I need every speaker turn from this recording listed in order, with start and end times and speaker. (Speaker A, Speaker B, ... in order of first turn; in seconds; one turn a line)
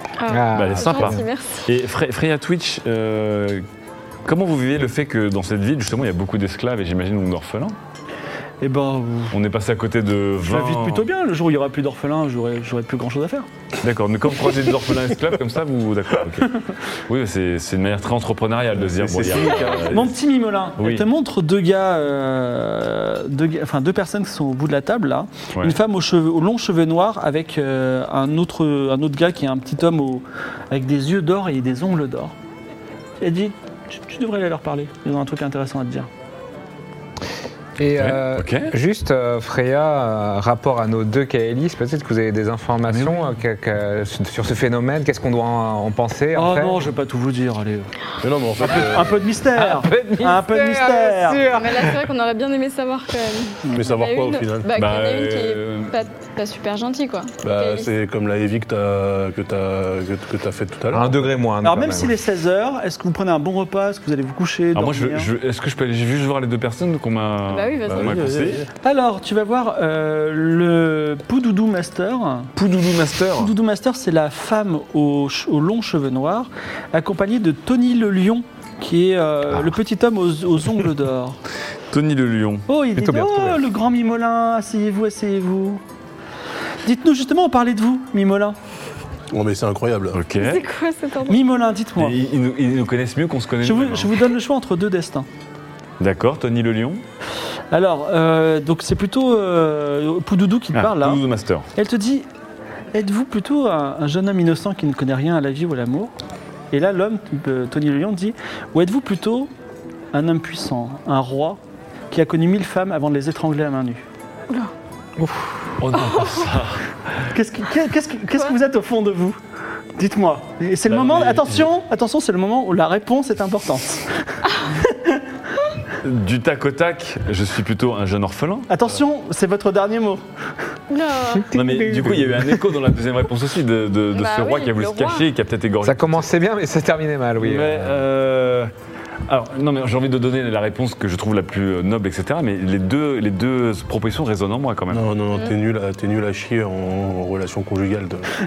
Speaker A: 0.2-1.7
Speaker B: 0.3-1.2
Speaker C: 0.5-3.6
Speaker C: 4.2-7.8
Speaker D: 8.6-9.4
Speaker C: 9.3-11.1
Speaker D: 10.4-13.5
Speaker C: 13.8-20.1
Speaker E: 18.8-20.1
Speaker D: 19.9-32.3
Speaker C: 20.8-21.1
Speaker D: 33.2-36.1
Speaker B: 37.8-46.9
Speaker C: 37.9-38.7
Speaker C: 42.9-43.3
Speaker D: 46.4-47.9
Speaker E: 48.2-49.2
Speaker C: 48.6-48.9
Speaker D: 48.6-51.5
Speaker C: 49.6-50.4
Speaker B: 49.8-52.0
Speaker A: 51.5-57.9
Speaker E: 53.8-54.7
Speaker C: 54.7-55.9
Speaker E: 57.4-61.3
Speaker B: 60.9-62.2
Speaker D: 61.6-65.3
Speaker C: 64.8-68.7
Speaker A: 67.5-68.2
Speaker E: 67.9-68.7
Speaker D: 68.8-72.5
Speaker C: 72.6-73.5
Speaker D: 73.4-81.4
Speaker C: 81.9-82.7
Speaker D: 82.7-85.8
Speaker B: 83.0-83.6
Speaker D: 86.8-88.6
Speaker E: 89.3-90.2
Speaker C: 90.1-90.6
Speaker A: 90.4-91.4
Speaker D: 91.3-92.2
Speaker C: 92.0-94.2
Speaker D: 93.6-95.3
Speaker C: 96.0-97.0
Speaker D: 97.7-101.2
Speaker C: 100.7-101.7
Speaker D: 101.8-102.3
Speaker D: 102.9-106.1
Speaker D: 106.7-109.5
Speaker D: 110.1-111.6
Speaker D: 112.1-114.0
Speaker B: 115.2-115.7
Speaker C: 115.8-116.8
Speaker A: 116.0-116.5
Speaker D: 117.3-119.4
Speaker D: 120.0-124.1
Speaker C: 120.9-121.7
Speaker D: 124.7-125.2
Speaker C: 126.0-129.0
Speaker D: 128.7-130.2
Speaker A: 130.9-131.6
Speaker B: 131.3-132.6
Speaker C: 131.5-136.3
Speaker A: 134.1-135.3
Speaker B: 135.8-138.0
Speaker D: 137.4-138.7
Speaker C: 137.6-138.0
Speaker C: 139.3-145.1
Speaker E: 144.9-148.3